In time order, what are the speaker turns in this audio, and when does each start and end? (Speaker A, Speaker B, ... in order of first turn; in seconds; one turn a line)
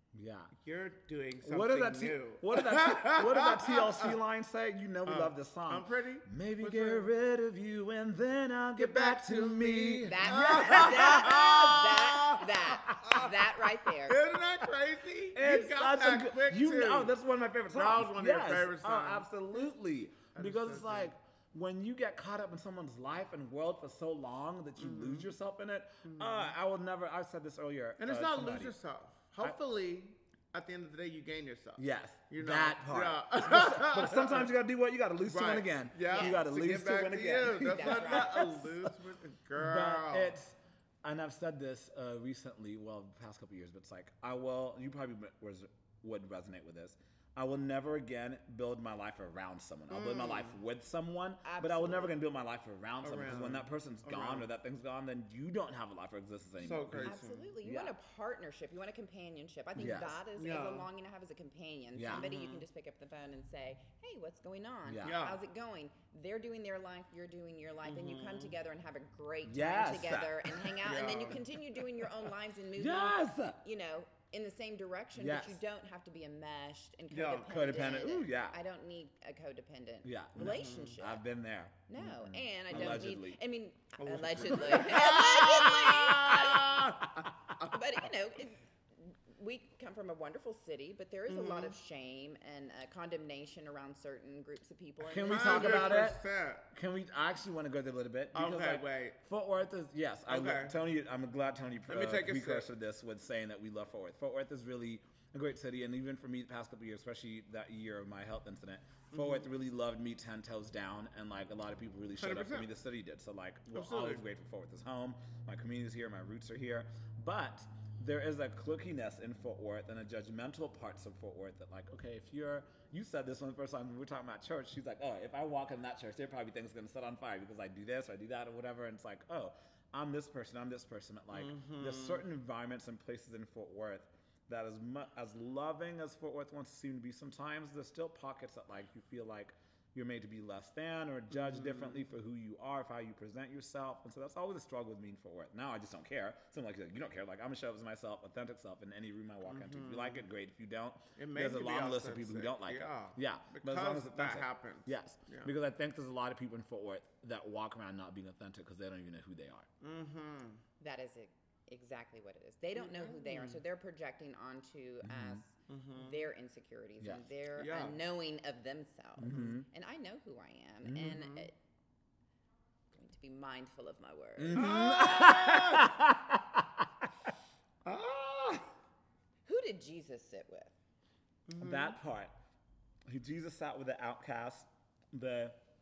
Speaker A: 0.1-0.5
Speaker B: 0.6-4.1
Speaker A: 1.4-12.0
Speaker B: 5.0-7.1
Speaker B: 8.8-13.4
Speaker C: 10.1-14.2
Speaker A: 12.9-13.3
Speaker B: 14.0-17.1
Speaker A: 15.4-28.7
Speaker B: 17.7-19.7
Speaker B: 20.3-21.1
Speaker B: 24.8-25.3
Speaker B: 26.0-26.5
Speaker B: 28.0-34.5
Speaker A: 31.8-38.9
Speaker B: 35.2-40.4
Speaker C: 36.1-36.4
Speaker C: 37.6-38.6
Speaker A: 39.6-58.0
Speaker B: 49.9-50.6
Speaker C: 51.4-52.2
Speaker B: 53.0-54.5
Speaker B: 56.6-57.5
Speaker C: 57.0-81.2
Speaker A: 59.8-60.2
Speaker B: 60.4-60.9
Speaker A: 62.0-62.3
Speaker B: 62.1-62.6
Speaker A: 64.8-65.2
Speaker B: 65.0-65.4
Speaker B: 67.8-68.5
Speaker A: 69.4-71.2
Speaker B: 70.8-71.5
Speaker A: 72.8-73.6
Speaker A: 75.2-75.6
Speaker B: 77.1-77.6
Speaker A: 77.5-78.6
Speaker A: 80.0-83.4
Speaker B: 80.4-81.0
Speaker C: 81.9-86.9
Speaker B: 82.8-83.0
Speaker B: 84.0-87.7
Speaker A: 84.8-85.7
Speaker A: 86.3-87.2
Speaker C: 87.7-96.1
Speaker B: 91.3-91.8
Speaker A: 95.0-96.2
Speaker B: 95.2-96.7
Speaker A: 96.7-159.7
Speaker B: 98.3-99.2
Speaker B: 100.3-100.8
Speaker B: 101.9-102.7
Speaker B: 109.1-109.5
Speaker B: 112.2-112.7
Speaker B: 113.7-114.2
Speaker B: 131.3-132.2
Speaker B: 141.3-142.0
Speaker B: 149.5-150.3
Speaker B: 151.2-155.5
Speaker B: 159.8-160.6
Speaker C: 160.8-171.5
Speaker B: 162.8-163.6
Speaker A: 165.0-165.4
Speaker B: 165.7-166.3
Speaker B: 167.6-168.0
Speaker A: 169.2-169.7
Speaker B: 169.2-169.5
Speaker A: 170.8-171.2
Speaker B: 171.1-171.5
Speaker C: 172.9-174.7
Speaker A: 174.4-177.1
Speaker B: 174.6-175.9
Speaker B: 177.8-178.7
Speaker C: 179.5-180.7
Speaker B: 181.5-182.0
Speaker A: 181.6-182.3
Speaker A: 183.1-185.6